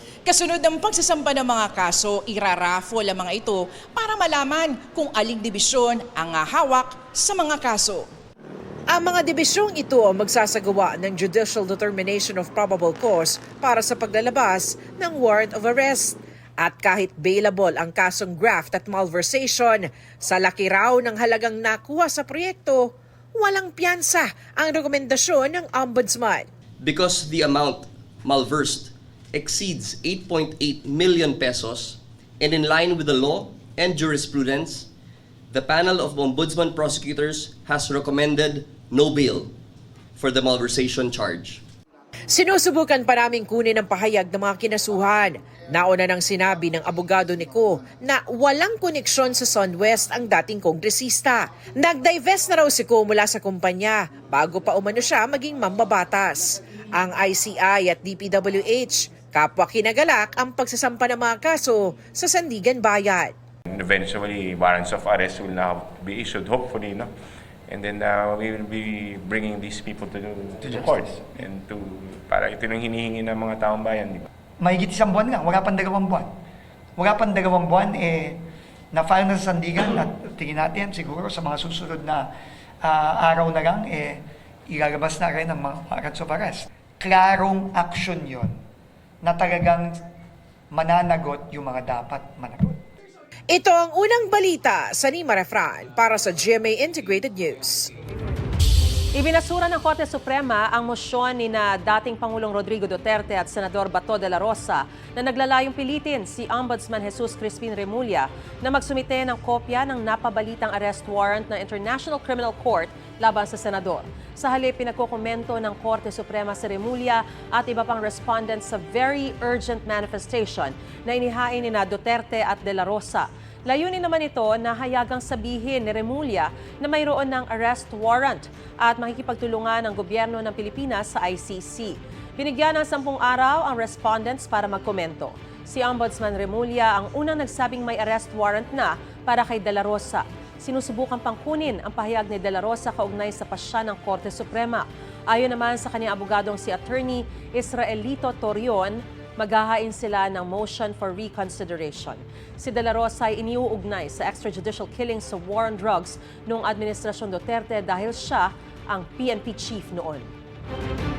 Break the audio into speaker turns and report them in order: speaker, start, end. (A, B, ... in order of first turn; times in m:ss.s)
0:00.2-0:08.1 A
0:08.9-0:26.5 B
0:26.8-0:34.9 C
0:35.5-0:39.5 C
0:40.2-0:41.6 C
0:42.3-1:03.3 B
1:03.7-1:07.1 D
1:07.7-1:14.3 D
1:10.6-1:11.2 E
1:14.6-1:16.3 E
1:17.0-1:18.4 E
1:18.9-1:22.3 E
1:22.8-1:28.5 E
1:29.2-1:30.0 E
1:30.7-1:32.8 E
1:33.5-1:37.9 B
1:39.1-2:40.3 F